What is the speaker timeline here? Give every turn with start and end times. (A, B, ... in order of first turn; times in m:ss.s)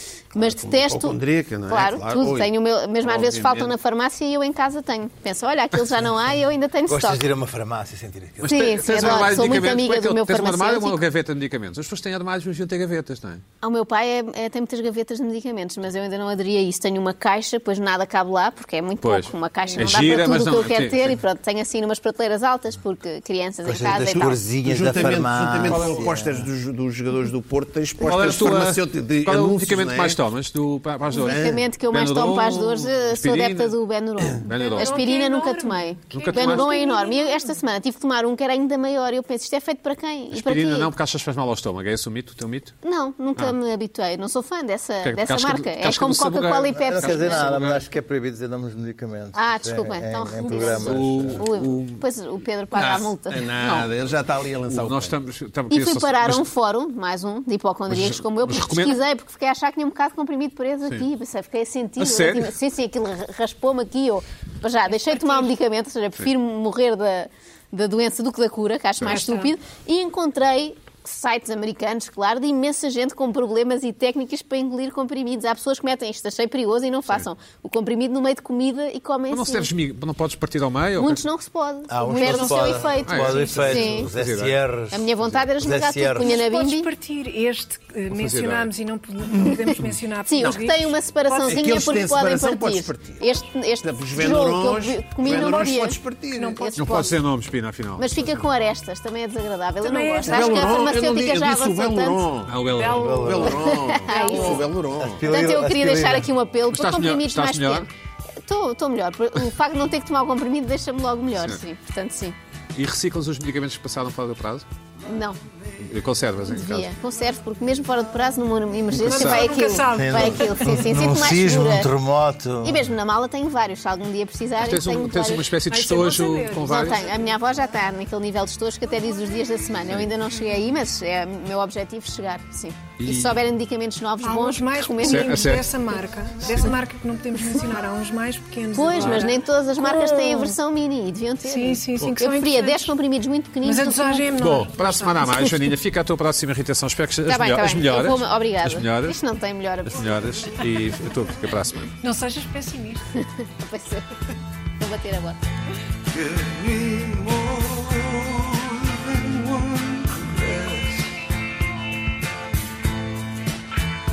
0:00.3-0:07.2 A
0:00.4-0:02.5 B
0:03.0-0:03.7 B
0:06.9-0:09.2 C
0:08.4-0:13.4 D
0:08.4-0:11.0 A
0:08.9-0:09.7 B
0:13.6-0:24.4 A
0:19.0-0:21.2 D
0:19.6-0:20.1 E
0:23.6-0:26.5 C
0:24.0-0:30.2 B
0:25.1-0:26.0 D
0:28.0-0:33.7 D
0:31.1-0:40.9 A
0:31.2-0:31.6 B
0:34.4-0:35.0 D
0:34.5-0:37.6 E
0:36.1-0:36.7 D
0:40.3-0:42.8 D
0:42.8-0:47.5 A
0:45.0-0:47.8 D
0:46.8-0:51.4 C
0:49.3-0:53.4 A
0:50.5-0:52.0 D
0:52.7-0:53.0 D
0:52.8-0:55.2 B
0:53.6-0:53.9 D
0:54.7-0:56.5 D
0:55.7-1:19.7 A
0:57.9-0:59.0 D
1:02.0-1:02.5 D
1:04.9-1:05.5 E
1:09.0-1:09.5 E
1:19.3-1:21.2 D
1:21.0-1:24.1 A
1:21.9-1:26.4 C
1:22.0-1:22.9 E
1:23.0-1:24.6 D
1:24.9-1:26.9 A
1:26.2-1:31.9 E
1:28.1-1:28.7 D
1:30.3-1:36.0 A
1:31.5-1:33.2 B
1:33.8-1:37.1 B
1:35.3-1:35.6 E
1:36.3-1:36.7 E
1:36.6-1:37.1 A
1:36.8-1:38.1 D
1:38.0-1:42.2 A
1:39.8-1:41.0 E
1:40.2-1:45.2 B
1:42.4-1:43.6 D
1:42.8-1:44.7 E
1:42.8-1:43.6 C
1:43.5-1:44.7 A
1:44.9-1:46.3 C
1:45.2-1:47.9 A
1:46.7-1:47.9 D
1:48.4-1:52.4 A
1:52.7-1:54.6 D
1:55.0-1:55.4 A
1:55.8-1:56.9 D
1:56.5-2:01.9 A
1:58.9-2:00.8 E
1:59.0-1:59.4 D
1:59.9-2:02.9 C
2:02.6-2:05.5 A
2:04.6-2:07.0 D
2:05.7-2:07.2 E
2:06.7-2:15.5 A
2:13.0-2:13.4 D
2:14.2-2:20.6 E
2:15.0-2:15.6 D
2:18.7-2:24.3 A
2:21.4-2:22.9 E
2:23.6-2:25.6 E
2:24.4-2:29.2 D
2:27.3-2:30.5 A
2:29.8-2:31.9 D
2:32.0-2:33.0 E
2:33.2-2:34.1 A
2:34.8-2:35.4 A
2:36.8-2:37.6 C
2:40.0-2:40.8 C